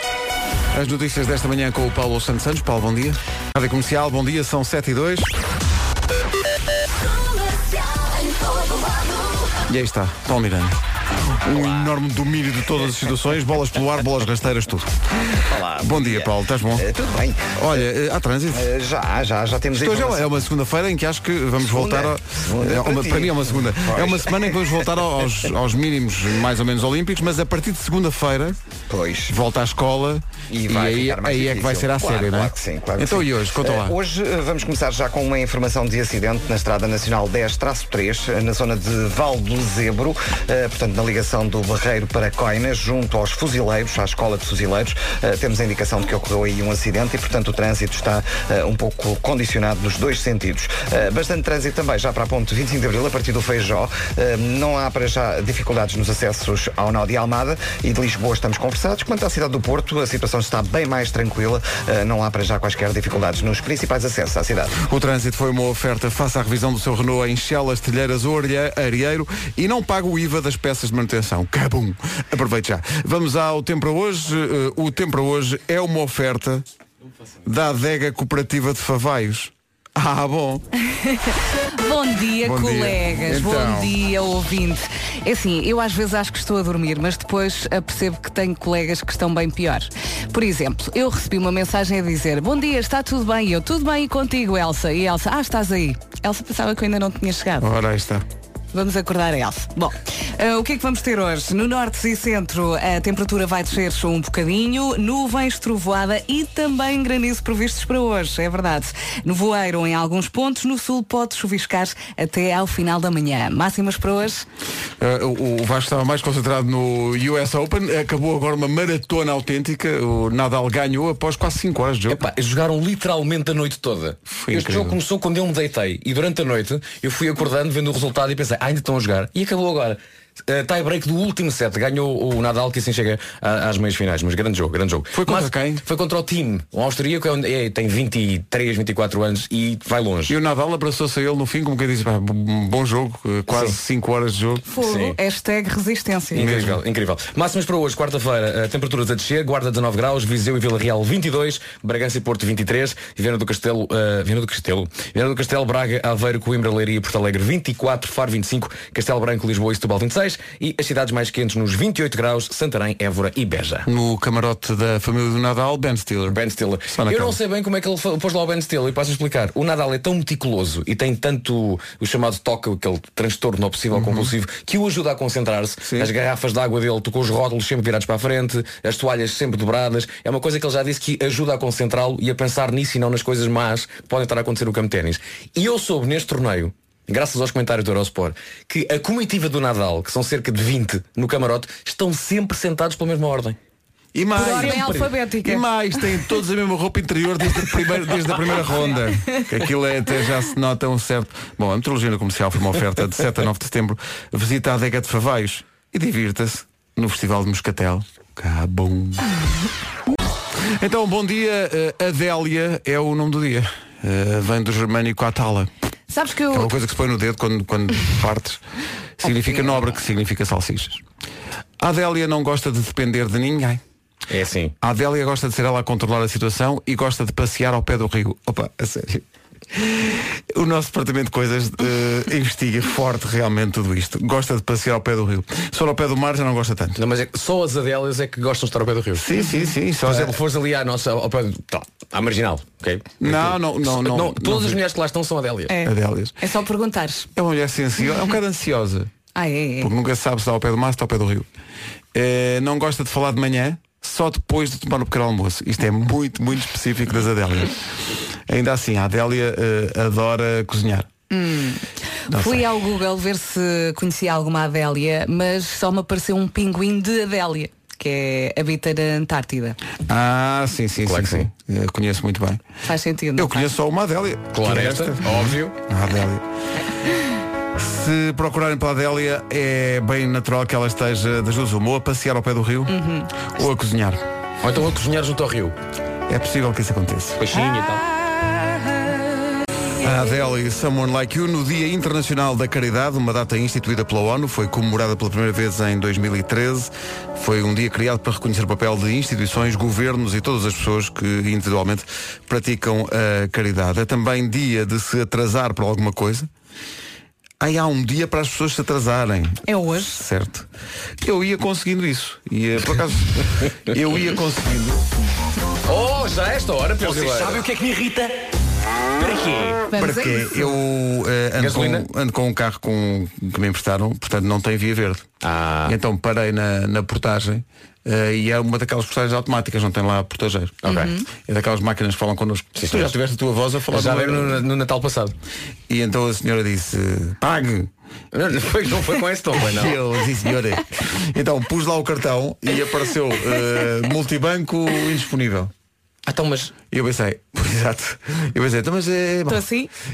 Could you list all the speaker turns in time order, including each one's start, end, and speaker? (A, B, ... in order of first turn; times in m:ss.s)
0:00.7-0:05.3 A
0:09.7-0:10.8 A
0:11.3-0:14.9 A
0:15.5-0:17.8 B
0:15.8-0:16.8 A
0:17.5-0:18.7 A
0:18.5-0:20.4 B
0:19.8-0:28.6 A
0:21.6-0:24.9 B
0:28.9-0:29.3 B
0:29.3-0:33.9 A
0:30.5-1:04.7 B
1:04.8-1:16.6 A
1:17.4-1:20.6 A
1:21.0-1:37.7 C
1:22.4-1:23.9 A
1:37.6-1:38.2 A
1:38.7-1:54.4 C
1:55.0-2:02.2 A
2:02.1-2:20.3 D
2:04.3-2:05.0 A
2:15.1-2:15.8 A
2:20.3-2:24.7 A
2:23.5-2:23.8 D
2:24.7-2:26.4 C
2:24.8-2:25.2 D
2:26.3-2:43.9 D
2:26.3-2:26.8 A
2:43.9-2:46.4 A
2:46.3-3:13.6 D
2:46.9-2:47.4 A
2:53.9-2:54.3 A
3:14.1-3:29.2 A
3:14.3-3:16.2 C
3:14.4-3:15.1 D
3:18.8-3:19.4 C
3:30.8-3:35.7 A
3:36.1-3:36.7 C
3:36.5-3:38.6 A
3:39.2-3:41.0 A
3:41.8-3:43.8 A
3:44.3-3:44.7 D
3:44.8-3:57.0 A
3:57.0-3:59.4 D
3:59.2-4:00.3 A
4:00.0-4:05.8 D
4:03.2-4:04.8 A
4:05.7-4:07.3 C
4:05.8-4:06.4 A
4:07.4-4:09.1 A
4:09.3-4:09.9 C
4:09.8-4:11.4 A
4:12.1-4:17.8 A
4:18.5-4:21.1 A
4:21.3-4:29.8 C
4:22.3-4:22.6 A
4:30.1-4:32.6 A
4:31.0-4:31.5 D
4:32.8-4:33.6 C
4:33.4-4:36.4 A
4:34.5-4:35.7 D
4:37.8-4:44.2 A
4:42.9-4:43.3 C
4:44.6-4:45.8 D
4:46.3-4:47.4 A
4:47.4-4:48.1 D
4:50.0-5:06.5 A
5:07.6-5:10.7 A
5:09.6-5:10.2 C
5:11.2-5:15.0 A
5:15.8-5:17.6 D
5:17.0-5:18.4 E
5:19.2-5:19.8 E
5:19.9-5:20.8 C
5:19.9-5:25.3 A
5:21.6-5:22.1 D
5:25.4-5:25.9 D
5:25.8-5:30.8 A
5:30.8-5:31.2 D
5:30.9-5:31.2 C
5:31.4-5:34.6 A
5:32.8-5:33.1 D
5:33.9-5:35.3 D
5:35.9-5:37.9 A
5:38.3-5:40.0 D
5:39.6-5:45.7 A
5:46.2-5:46.7 D
5:46.9-5:49.6 A
5:49.5-5:49.9 C